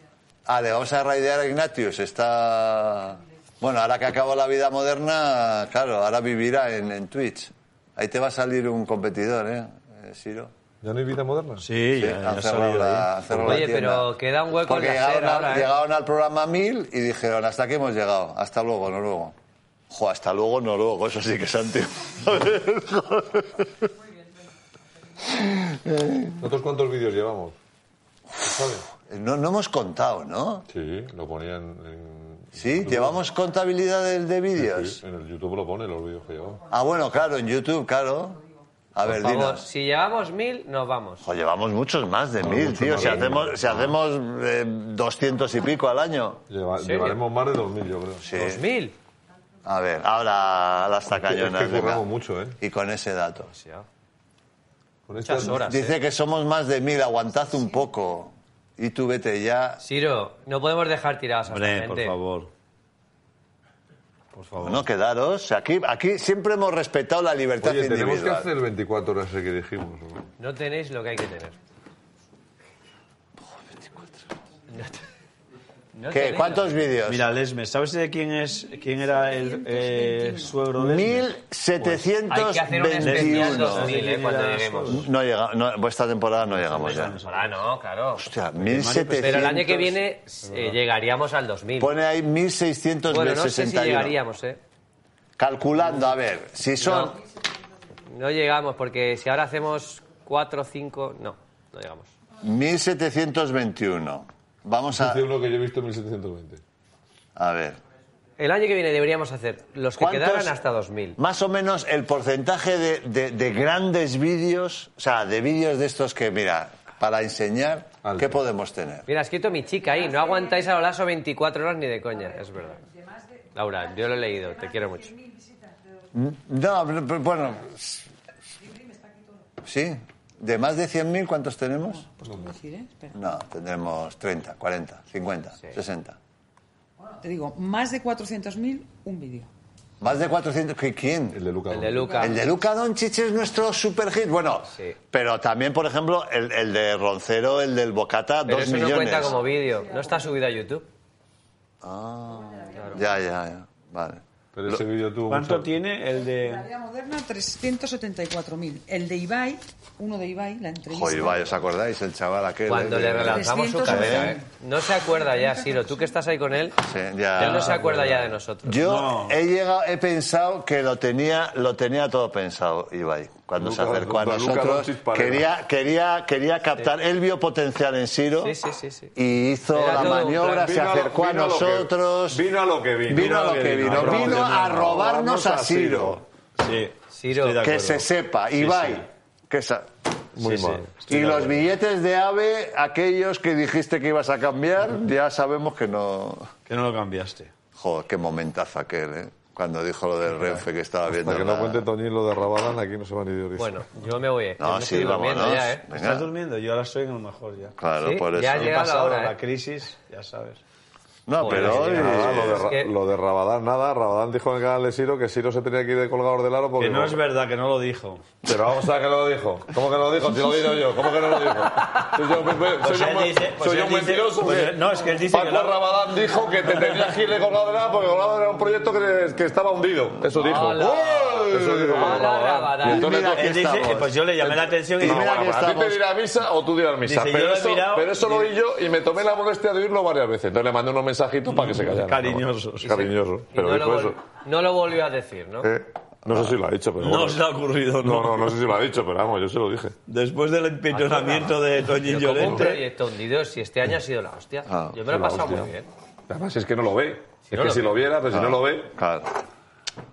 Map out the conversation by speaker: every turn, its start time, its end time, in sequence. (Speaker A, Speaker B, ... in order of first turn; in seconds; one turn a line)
Speaker A: 0.5-10.5
Speaker B: 10.8-11.6
Speaker C: 11.6-13.1
Speaker A: 12.0-19.3
Speaker D: 13.4-15.7
Speaker A: 19.9-23.9
Speaker A: 25.2-26.4
Speaker B: 26.4-27.6
Speaker B: 28.4-28.8
Speaker A: 29.0-30.6
Speaker B: 30.7-33.2
Speaker A: 32.5-35.0
Speaker B: 34.5-36.6
Speaker A: 36.7-38.4
Speaker A: 38.9-39.6
Speaker D: 39.0-41.3
Speaker A: 41.2-46.4
Speaker B: 42.4-43.9
Speaker D: 43.0-43.2
Speaker B: 46.5-48.2
Speaker D: 46.8-47.2
Speaker A: 48.2-48.6
Speaker D: 48.3-48.9
Speaker A: 49.6-52.0
Speaker B: 51.1-52.6
Speaker A: 52.6-53.5
Speaker D: 53.4-53.9
Speaker B: 55.1-55.6
Speaker D: 55.2-56.0
Speaker A: 55.4-59.8
Speaker D: 59.8-62.2
Speaker C: 61.5-62.5
Speaker C: 64.3-64.8
Speaker A: 64.6-68.5
Speaker B: 67.6-70.2
Speaker D: 70.4-71.6
Speaker A: 73.6-74.2
Speaker D: 74.7-75.0
Speaker D: 75.9-76.8
Speaker A: 76.1-77.3
Speaker C: 77.1-81.3
Speaker E: 79.4-80.5
Speaker A: 80.8-83.9
Speaker D: 82.3-85.0
Speaker C: 83.0-85.0
Speaker A: 84.9-87.2
Speaker C: 86.6-87.6
Speaker D: 86.8-88.3
Speaker A: 88.2-89.9
Speaker C: 88.6-89.8
Speaker D: 89.2-92.0
Speaker A: 91.8-94.2
Speaker D: 93.1-94.6
Speaker A: 95.4-97.2
Speaker D: 96.8-97.2
Speaker D: 98.1-102.1
Speaker A: 102.4-105.2
Speaker B: 105.0-106.6
Speaker A: 107.3-107.8
Speaker D: 108.4-111.2
Speaker A: 110.0-110.5
Speaker A: 111.2-119.1
Speaker B: 118.0-118.4
Speaker D: 119.1-122.8
Speaker E: 122.9-123.3
Speaker D: 123.5-125.1
Speaker E: 124.6-125.7
Speaker A: 126.1-128.1
Speaker E: 128.8-129.3
Speaker A: 129.6-132.0
Speaker E: 131.9-133.2
Speaker B: 132.2-132.5
Speaker A: 133.1-136.2
Speaker E: 137.2-139.5
Speaker A: 140.0-141.4
Speaker B: 141.3-142.3
Speaker D: 141.7-142.4
Speaker A: 142.1-149.4
Speaker D: 148.5-150.9
Speaker E: 149.8-150.2
Speaker A: 151.8-154.8
Speaker E: 152.5-152.9
Speaker B: 154.5-155.7
Speaker C: 155.3-156.7
Speaker E: 156.2-161.5
Speaker A: 160.9-164.4
Speaker D: 162.7-166.8
Speaker E: 163.2-164.5
Speaker E: 165.0-166.1
Speaker A: 166.8-167.8
Speaker D: 167.3-168.8
Speaker B: 167.5-168.3
Speaker A: 168.6-178.6
Speaker C: 168.8-169.4
Speaker B: 173.6-175.4
Speaker D: 178.4-179.1
Speaker A: 179.1-182.4
Speaker D: 179.7-180.7
Speaker B: 179.9-186.2
Speaker A: 183.1-186.2
Speaker C: 183.1-189.1
Speaker D: 187.1-187.6
Speaker A: 187.6-189.9
Speaker B: 190.3-190.9
Speaker C: 190.4-191.6
Speaker A: 191.1-196.5
Speaker C: 196.7-197.5
Speaker A: 197.8-201.8
Speaker B: 201.1-203.8
Speaker D: 203.6-205.8
Speaker A: 204.6-206.3
Speaker C: 205.9-207.7
Speaker A: 207.8-208.8
Speaker D: 208.0-209.3
Speaker C: 208.5-210.6
Speaker A: 211.3-212.7
Speaker D: 211.4-212.9
Speaker B: 211.4-217.2
Speaker C: 211.6-212.2
Speaker C: 216.8-218.3
Speaker B: 218.4-233.5
Speaker C: 222.8-225.9
Speaker C: 226.7-227.1
Speaker D: 230.3-233.2
Speaker A: 230.7-232.2
Speaker A: 232.8-234.2
Speaker C: 233.2-235.4
Speaker B: 234.4-244.2
Speaker A: 235.0-236.0
Speaker C: 237.0-238.5
Speaker C: 241.5-243.1
Speaker D: 243.5-245.7
Speaker B: 245.6-247.4
Speaker A: 246.3-246.6
Speaker C: 247.0-248.5
Speaker B: 248.0-249.9
Speaker C: 250.1-252.8
Speaker D: 250.9-255.9
Speaker A: 254.7-254.9
Speaker B: 255.0-255.7
Speaker B: 256.3-258.9
Speaker D: 257.5-257.9
Speaker A: 258.3-259.3